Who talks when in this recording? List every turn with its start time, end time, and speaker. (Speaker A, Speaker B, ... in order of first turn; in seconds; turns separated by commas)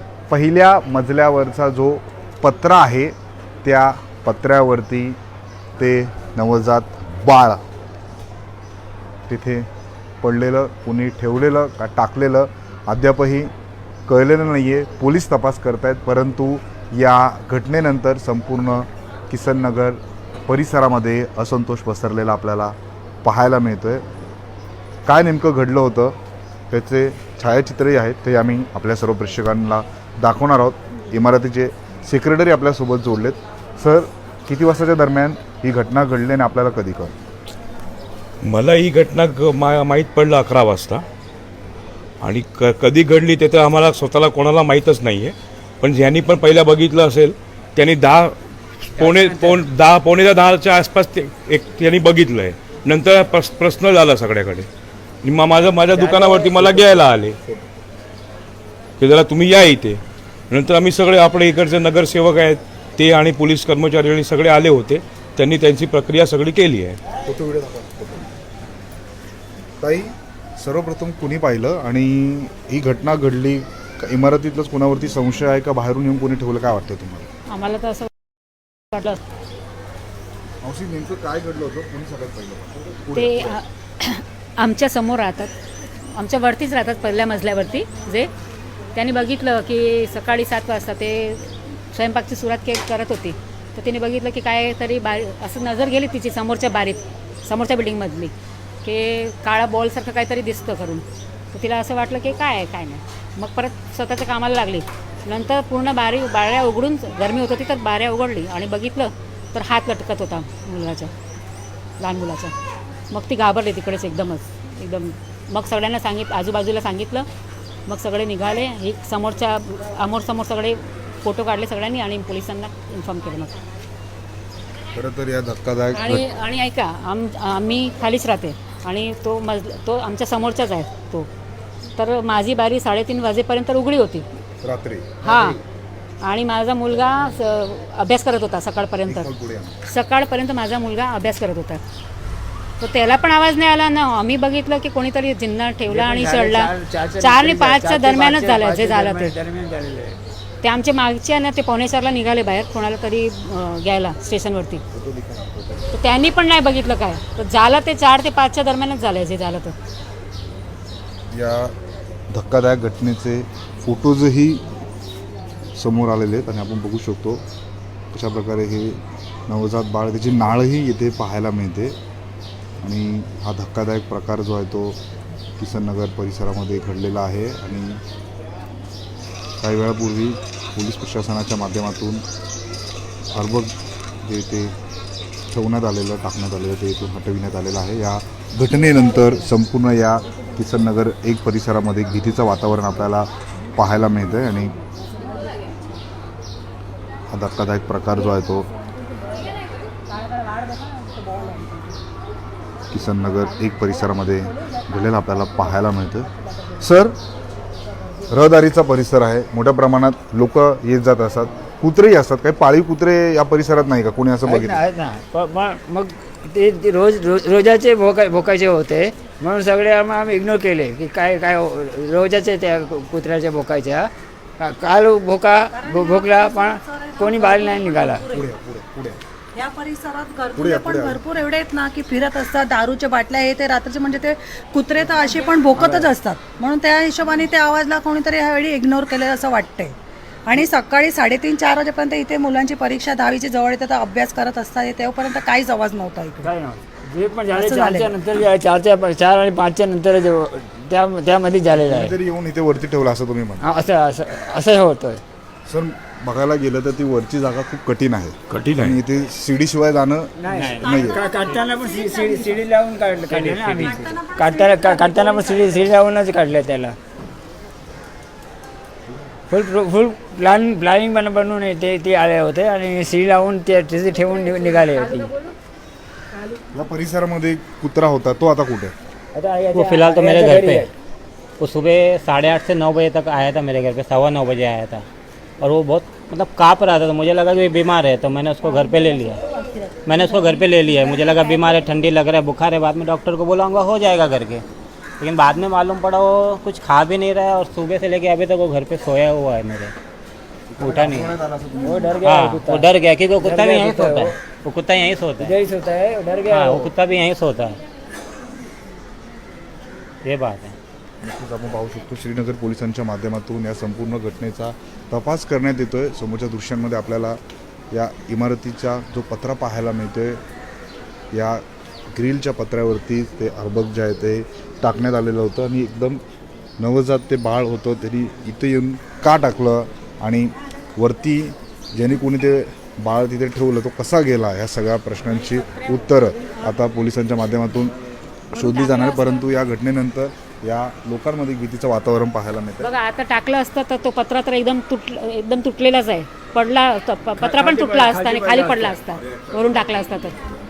Speaker A: 0.3-5.2, Speaker A: 5.8-7.6, Speaker A: 9.3-9.7, Speaker A: 10.2-13.5, Speaker A: 14.1-24.0, Speaker A: 25.1-26.2, Speaker A: 26.7-37.1, Speaker B: 38.4-41.0, Speaker B: 42.2-54.7, Speaker C: 49.0-49.6, Speaker B: 55.2-57.4, Speaker C: 56.0-56.5, Speaker A: 56.1-57.7, Speaker B: 59.0-67.0, Speaker A: 67.2-68.3, Speaker A: 69.8-77.3, Speaker D: 77.5-78.1, Speaker D: 78.9-79.2, Speaker A: 80.6-83.6, Speaker D: 83.1-85.5, Speaker D: 86.1-88.3, Speaker D: 89.0-98.3, Speaker D: 98.8-111.1, Speaker D: 112.0-112.5, Speaker D: 113.1-117.3, Speaker D: 117.9-123.6, Speaker A: 124.9-126.2, Speaker D: 126.0-131.3, Speaker D: 132.0-134.3, Speaker A: 134.6-135.6, Speaker D: 135.2-135.6, Speaker D: 136.2-139.3, Speaker A: 139.1-139.8, Speaker D: 139.9-141.8, Speaker D: 142.8-149.3, Speaker C: 145.9-150.2, Speaker D: 150.6-154.8, Speaker A: 154.9-155.9, Speaker D: 155.9-159.7, Speaker A: 161.3-161.7, Speaker A: 162.3-164.6, Speaker A: 165.8-167.4, Speaker A: 168.1-172.0, Speaker A: 172.8-175.0, Speaker A: 175.6-178.0, Speaker A: 179.6-182.2, Speaker A: 183.3-184.7, Speaker A: 185.5-194.8, Speaker A: 197.3-198.7, Speaker A: 202.9-207.2, Speaker A: 208.3-214.8, Speaker C: 214.4-228.3, Speaker E: 225.8-228.2, Speaker A: 228.3-229.2, Speaker E: 229.6-246.5, Speaker A: 230.6-231.2, Speaker C: 235.7-236.1, Speaker C: 246.4-252.2, Speaker E: 247.5-248.2, Speaker A: 251.7-253.7, Speaker C: 253.6-255.2, Speaker A: 255.7-261.2, Speaker B: 258.5-259.0, Speaker C: 260.4-266.9, Speaker F: 260.5-261.7, Speaker E: 260.9-261.2, Speaker E: 261.8-262.6, Speaker F: 263.3-264.1, Speaker E: 263.6-265.9, Speaker C: 269.5-275.3, Speaker A: 276.7-278.9, Speaker C: 279.4-280.9, Speaker F: 279.7-280.9, Speaker F: 281.6-285.1, Speaker F: 285.6-289.4, Speaker F: 290.1-294.6, Speaker F: 295.2-299.9, Speaker A: 300.7-302.3, Speaker F: 300.8-301.4, Speaker C: 301.8-304.4, Speaker F: 302.2-305.6, Speaker C: 305.4-306.9, Speaker F: 306.5-307.8, Speaker F: 310.2-310.8, Speaker A: 311.2-317.4, Speaker A: 317.9-320.4, Speaker A: 321.3-326.2, Speaker A: 326.8-337.9, Speaker A: 338.5-342.9, Speaker D: 338.6-339.3, Speaker D: 342.8-350.4, Speaker C: 347.4-349.0